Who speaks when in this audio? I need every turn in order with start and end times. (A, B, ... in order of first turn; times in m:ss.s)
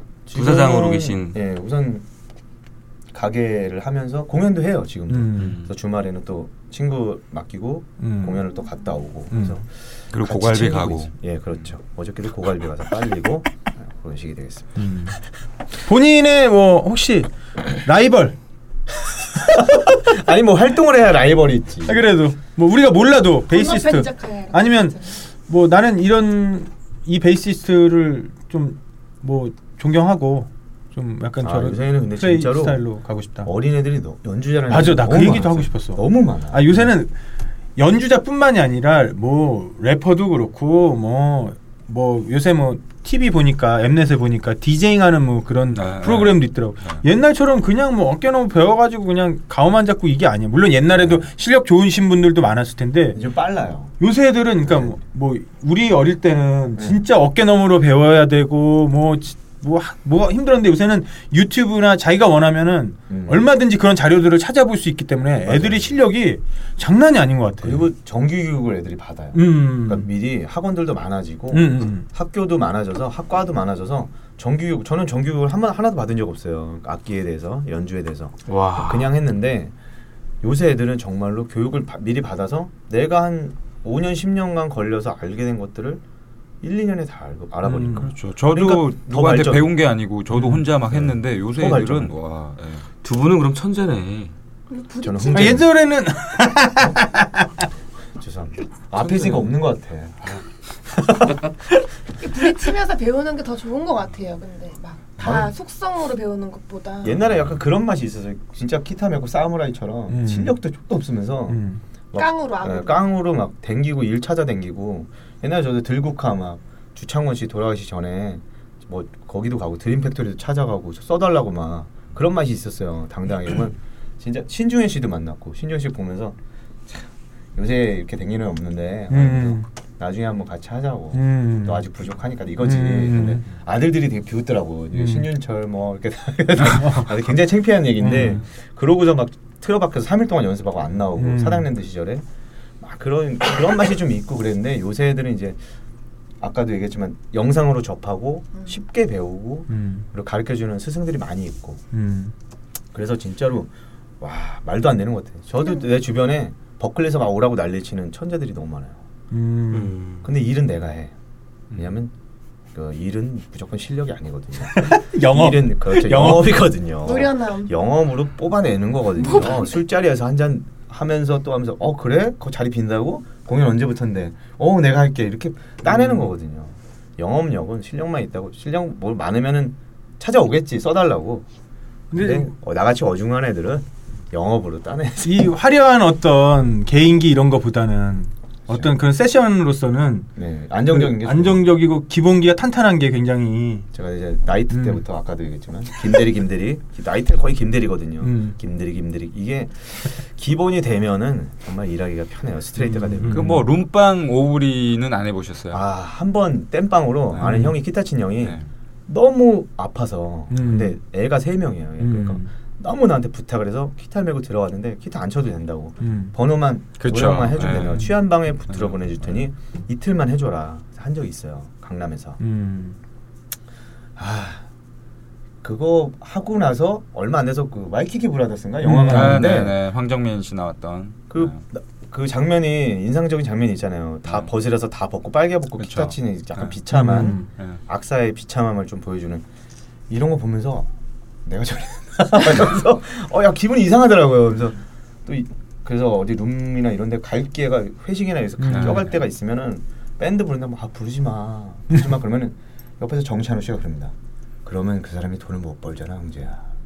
0:00.3-0:02.0 A
0:00.3-0:01.4 B
0:03.1-0:15.1 A
0:05.1-0:05.6 C
0:08.0-0:08.4 C
0:10.1-0:11.1 D
0:14.8-0:15.2 C
0:15.8-0:18.4 C
0:19.4-0:22.1 A
0:21.8-0:33.5 C
0:23.5-0:25.2 E
0:31.4-0:32.8 A
0:33.4-0:36.9 A
0:34.7-0:37.1 C
0:37.8-0:53.2 C
0:45.7-0:47.0 D
0:51.0-0:51.2 A
0:53.1-0:54.0 A
0:54.0-1:07.8 C
0:54.6-0:55.0 A
0:56.8-0:57.0 A
1:03.1-1:03.5 A
1:05.4-1:06.0 A
1:07.6-1:19.7 A
1:09.3-1:10.1 C
1:11.5-1:12.0 C
1:18.5-1:19.1 B
1:20.4-1:26.0 A
1:26.6-1:29.7 A
1:27.7-1:28.0 C
1:27.9-1:32.8 D
1:30.9-1:32.1 A
1:33.0-1:34.3 B
1:34.7-1:35.6 E
1:35.0-1:35.7 A
1:35.3-1:37.5 C
1:38.2-1:40.4 A
1:39.1-1:39.4 B
1:42.2-1:47.2 E
1:45.2-1:45.5 A
1:47.0-2:06.4 A
1:50.1-1:50.6 C
1:51.5-1:51.8 C
1:52.1-1:53.1 E
2:07.5-2:22.2 A
2:09.1-2:09.6 C
2:11.1-2:11.8 C
2:12.6-2:13.4 C
2:14.9-2:15.3 C
2:16.6-2:17.1 C
2:18.0-2:18.4 C
2:21.2-2:21.7 C
2:22.8-2:25.6 A
2:26.4-2:31.8 A
2:29.7-2:30.0 C
2:31.9-2:32.3 C
2:32.9-2:39.0 A
2:39.3-2:40.0 C
2:39.7-2:40.2 B
2:40.2-2:41.1 A
2:41.7-2:42.1 A
2:42.7-3:01.4 A
2:44.7-2:46.6 C
2:47.0-2:47.7 E
2:49.2-2:49.8 E
2:55.8-2:56.3 C
3:02.1-3:05.5 A
3:02.1-3:02.5 C
3:05.2-3:10.3 C
3:10.4-3:11.7 A
3:10.9-3:13.9 C
3:13.9-3:23.6 A
3:14.7-3:15.0 C
3:18.2-3:18.5 C
3:22.8-3:23.7 C
3:23.3-3:25.8 D
3:25.7-3:42.4 A
3:27.4-3:27.8 C
3:28.4-3:28.7 D
3:30.5-3:31.0 C
3:32.0-3:32.5 C
3:36.0-3:36.3 C
3:37.0-3:38.1 D
3:38.7-3:38.9 D
3:42.4-3:43.0 C
3:44.2-3:44.6 A
3:45.6-3:49.8 A
3:48.8-3:49.6 C
3:49.1-3:51.6 D
3:51.3-3:59.4 A
3:55.8-3:56.8 D
3:56.9-3:57.5 C
4:00.1-4:00.9 A
4:01.4-4:14.1 A
4:08.6-4:09.1 C
4:08.7-4:09.0 D
4:14.6-4:16.6 A